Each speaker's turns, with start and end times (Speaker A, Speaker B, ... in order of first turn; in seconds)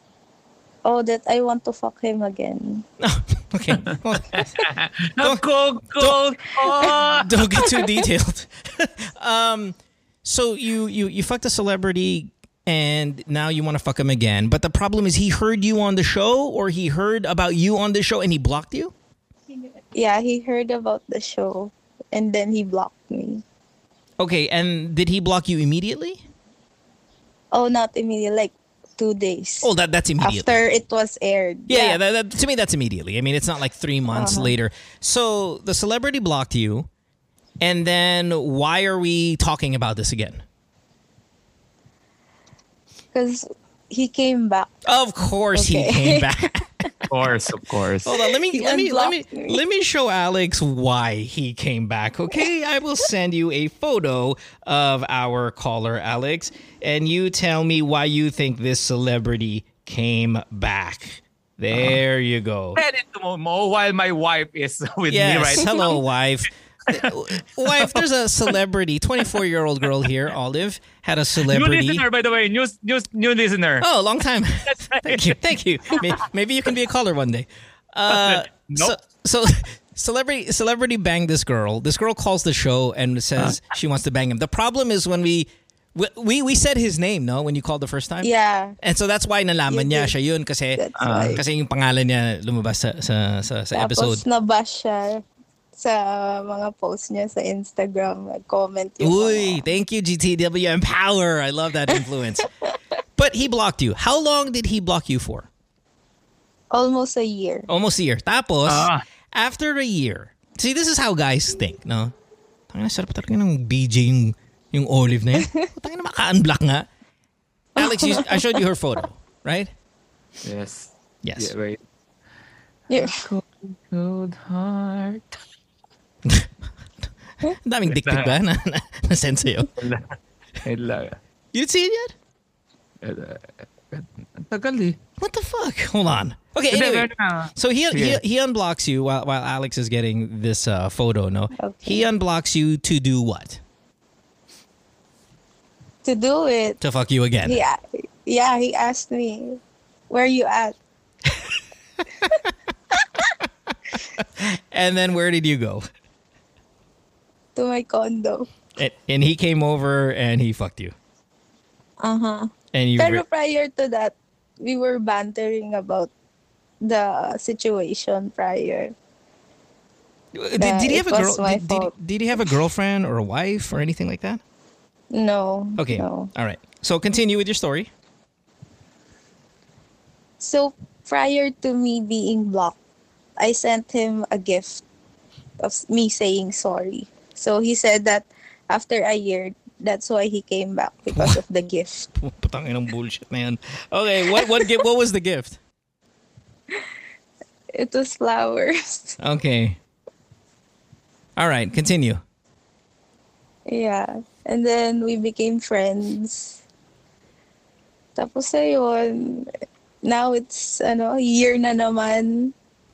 Speaker A: 0.8-2.8, 7.6-8.0, 19.8-23.4, 27.5-29.7, 30.2-32.0, 34.1-34.5, 43.1-44.7, 45.5-46.3, 48.5-49.6, 88.2-88.8, 89.7-90.1, 90.8-91.4, 93.7-95.2, 95.8-99.6, 106.7-107.7, 117.8-118.5, 122.9-123.3, 141.6-142.0, 146.0-146.8, 147.4-150.8, 157.6-158.5, 162.0-166.1, 166.8-168.9, 170.6-171.9, 175.1-176.3, 180.4-182.8, 183.4-184.8, 185.6-192.1, 194.3-194.8, 197.7-199.2, 203.7-206.6, 208.2-209.5, 210.0-212.5
Speaker B: 3.0-4.7, 6.7-18.9, 24.2-26.2, 29.6-30.6, 31.7-36.9, 37.6-40.4, 44.8-47.0, 48.0-62.8, 65.1-72.0, 73.8-88.3, 88.8-94.2, 99.0-102.5, 103.2-105.5, 107.7-112.1, 112.7-116.9, 117.8-119.7, 121.2-121.5, 126.2-126.5, 127.5-129.7, 131.5-132.1, 135.2-143.6, 146.8-147.6, 154.2-155.8, 158.8-160.9, 162.7-163.2, 170.3-174.4, 175.8-177.9, 191.1-191.4, 192.2-195.6, 199.2-199.8, 201.4-202.2
Speaker C: 3.9-7.8, 47.1-48.1, 62.8-66.0, 67.7-68.0, 71.4-73.8, 74.7-75.3, 78.1-78.9, 91.0-91.4, 108.7-109.0, 120.4-121.8, 123.0-125.4, 127.9-128.3, 129.8-131.2, 133.0-135.0, 136.7-138.2